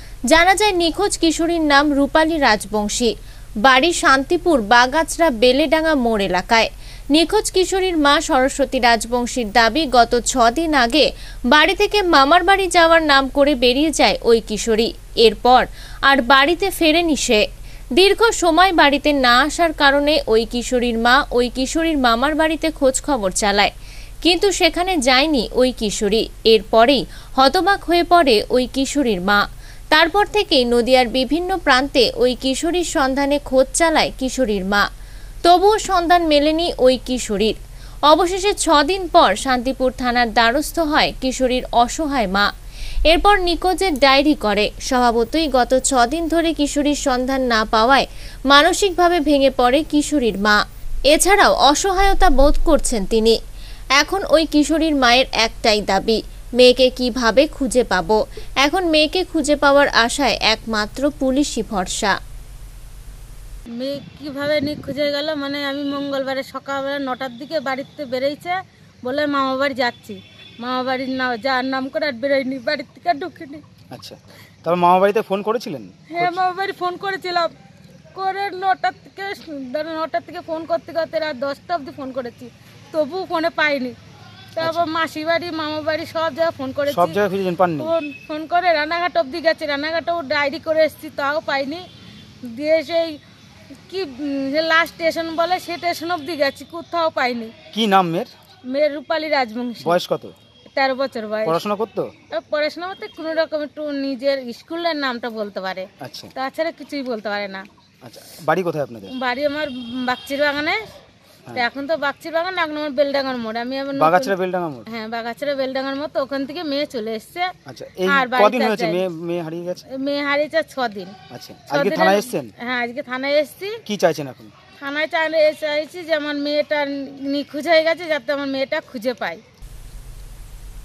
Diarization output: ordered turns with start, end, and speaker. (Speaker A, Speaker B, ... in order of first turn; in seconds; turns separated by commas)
Speaker A: 0.3-3.1, Speaker A: 3.6-17.4, Speaker A: 18.0-23.7, Speaker A: 24.2-29.4, Speaker A: 29.9-34.8, Speaker A: 35.4-37.5, Speaker A: 38.1-42.5, Speaker A: 43.1-50.6, Speaker A: 51.1-53.4, Speaker A: 54.0-62.1, Speaker B: 63.8-73.6, Speaker C: 73.9-76.4, Speaker B: 76.1-77.5, Speaker B: 78.1-83.9, Speaker B: 84.5-87.2, Speaker C: 84.6-84.8, Speaker C: 86.9-87.9, Speaker B: 87.8-91.8, Speaker B: 92.5-93.2, Speaker B: 93.9-97.5, Speaker C: 97.7-98.3, Speaker B: 98.7-100.0, Speaker C: 99.8-100.3, Speaker B: 100.8-101.6, Speaker C: 101.4-102.1, Speaker B: 102.3-107.6, Speaker C: 106.0-106.3, Speaker C: 108.0-109.1, Speaker B: 109.1-110.8, Speaker B: 111.5-114.3, Speaker C: 113.9-114.8, Speaker B: 114.9-117.5, Speaker C: 117.7-119.8, Speaker B: 118.1-119.0, Speaker B: 119.9-121.1, Speaker C: 121.3-122.5, Speaker B: 121.7-123.8, Speaker C: 123.9-124.5, Speaker B: 124.8-129.4